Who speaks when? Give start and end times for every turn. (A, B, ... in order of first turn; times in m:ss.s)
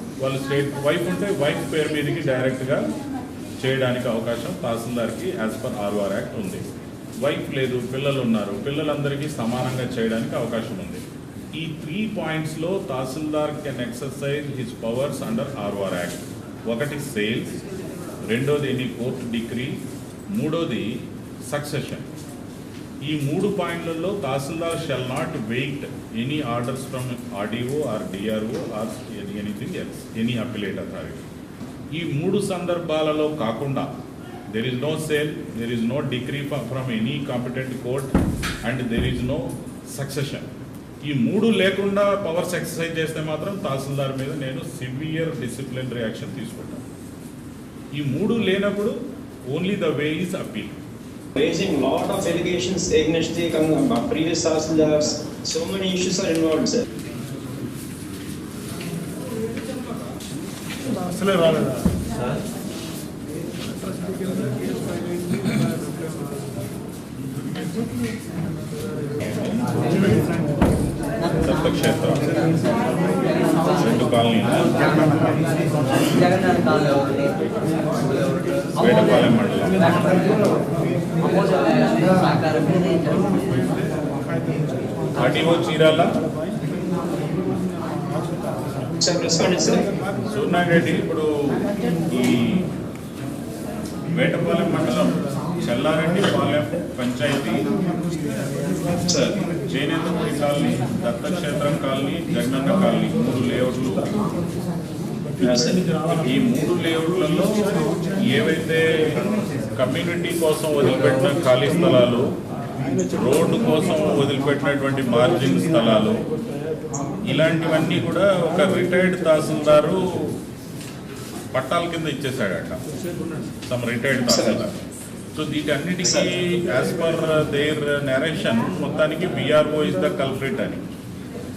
0:00.2-0:02.8 A
0:03.6-0:06.6 A
0:07.2-0:11.0 A
0:11.6-0:17.6 A
0:18.3-0:19.8 A
0:20.3-0:20.9 A
0:21.5-0:22.0 A
0:23.0-0:31.2 A
0:31.9-0:33.9 A
0:34.5-0:38.1 A
0:38.6-0:40.5 A
0:41.0-0:46.8 A
0:48.0-0:48.9 A
0:49.5-0:50.8 A
0:51.4-0:56.8 B
1:09.2-1:09.6 A
1:11.4-1:12.3 A
1:12.4-1:13.8 C
1:13.8-1:14.7 A
1:14.7-1:17.5 C
1:18.8-1:19.8 A
1:19.8-1:20.6 C
1:21.2-1:23.8 C
1:25.2-1:26.1 A
1:29.0-1:29.8 B
1:30.3-1:31.2 A
1:32.1-1:32.4 A
1:34.1-1:37.6 A
1:39.1-1:39.4 B
1:39.7-1:44.1 A
1:45.4-1:45.8 B
1:46.0-1:47.6 A
1:48.3-1:49.0 A
1:49.7-1:52.3 A
1:53.1-1:56.2 A
1:57.2-2:00.0 A
2:01.5-2:02.8 A
2:03.7-2:04.7 A
2:04.2-2:04.6 B
2:05.3-2:10.8 A
2:06.0-2:06.3 B